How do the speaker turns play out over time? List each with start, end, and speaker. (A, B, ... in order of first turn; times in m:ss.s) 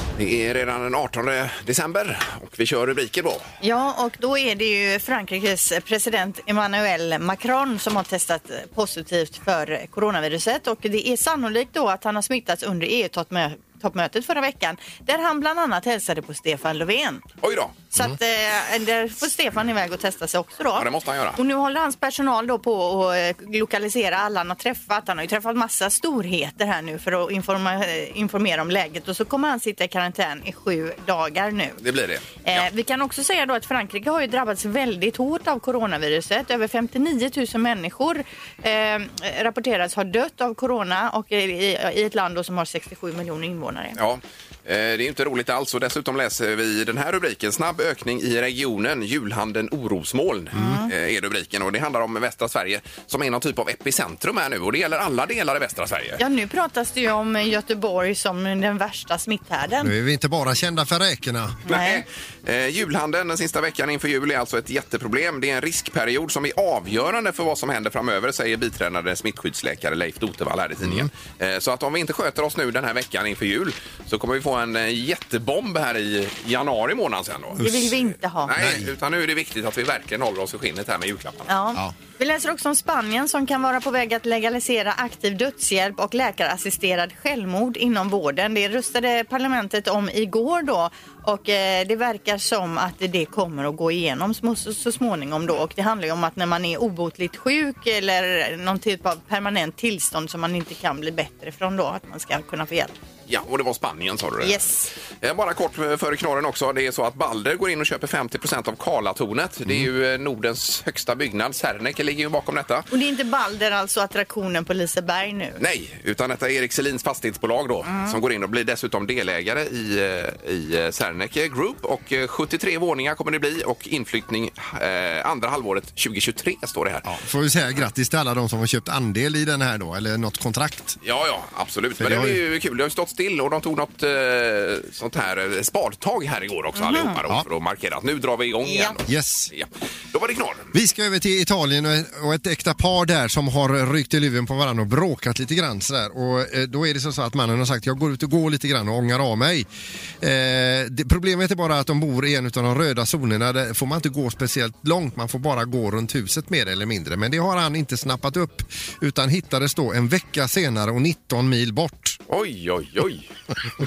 0:00.2-0:03.4 A
0:03.6-0:17.2 B
0:17.4-0:17.8 A
0:17.9-0:31.8 B
0:20.8-0:21.4 A
0:31.8-0:32.6 A
0:32.4-0:44.0 B
0:44.0-0:56.2 A
0:50.5-0:50.9 B
0:50.6-0:50.8 C
0:56.2-0:59.9 B
0:59.8-1:01.6 C
1:01.7-1:02.0 B
1:01.7-1:17.6 A
1:10.8-1:11.1 C
1:17.6-1:18.5 B
1:17.6-1:17.9 C
1:18.4-1:21.5 A
1:18.5-1:18.9 C
1:21.5-1:42.9 B
1:43.3-1:44.6 A
1:44.4-1:44.9 B
1:45.2-1:52.9 A
1:52.9-1:55.6 B
1:55.6-2:07.1 A
1:57.9-1:58.2 B
2:07.0-2:11.0 C
2:11.0-2:20.7 A
2:12.0-2:12.4 C
2:16.8-2:17.2 B
2:18.6-2:19.0 B
2:19.1-2:19.5 C
2:20.7-2:29.7 C
2:30.2-2:42.2 C
2:42.3-2:43.3 A